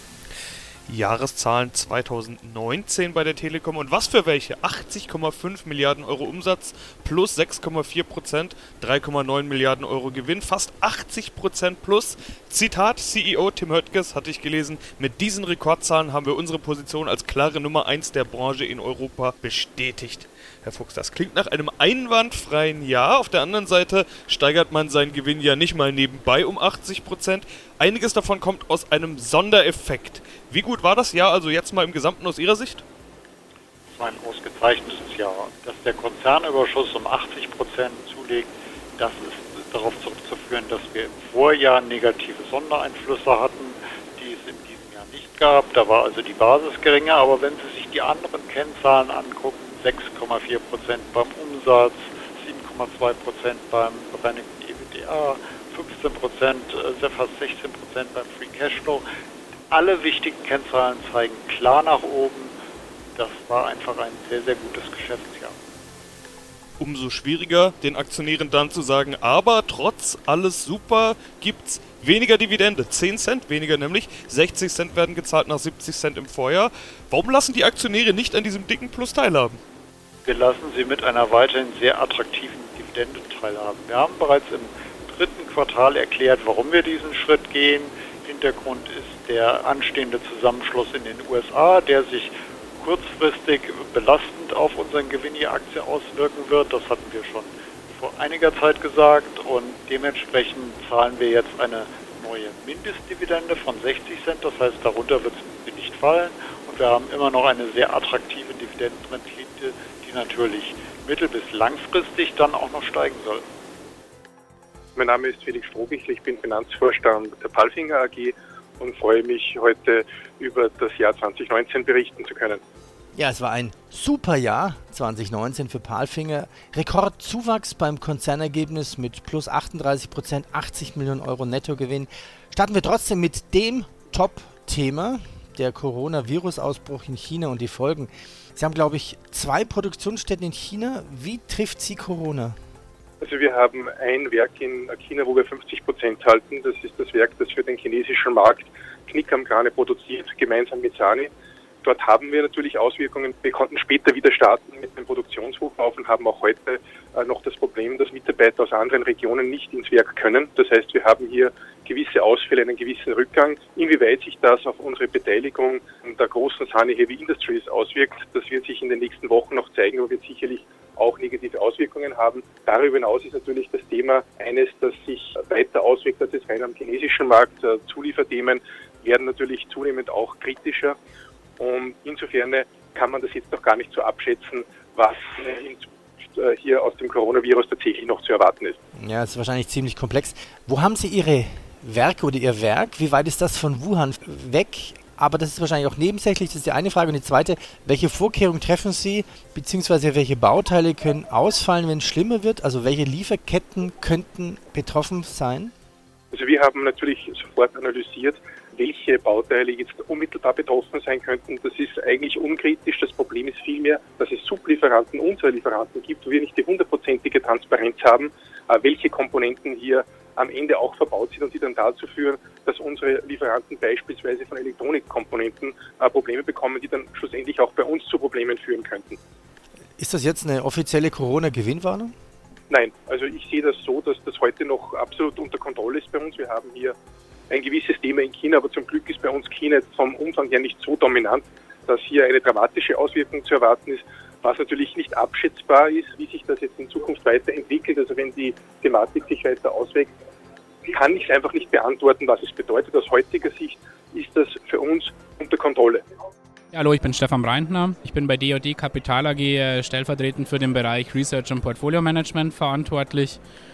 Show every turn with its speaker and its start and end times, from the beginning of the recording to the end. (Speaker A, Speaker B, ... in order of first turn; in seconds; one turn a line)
Speaker A: 0.9-32.8
Speaker B: 33.9-59.1
Speaker B: 59.7-62.6
Speaker B: 63.1-65.6
Speaker A: 66.8-79.6
Speaker B: 80.2-113.5
Speaker C: 115.0-122.6
Speaker D: 123.2-142.6
Speaker C: 143.2-151.3
Speaker C: 151.8-181.0
Speaker C: 181.6-188.8
Speaker D: 188.9-205.7
Speaker C: 206.3-229.2
Speaker D: 230.0-232.1
Speaker C: 232.7-236.9
Speaker C: 237.5-250.1
Speaker C: 250.9-256.0
Speaker E: 256.7-263.4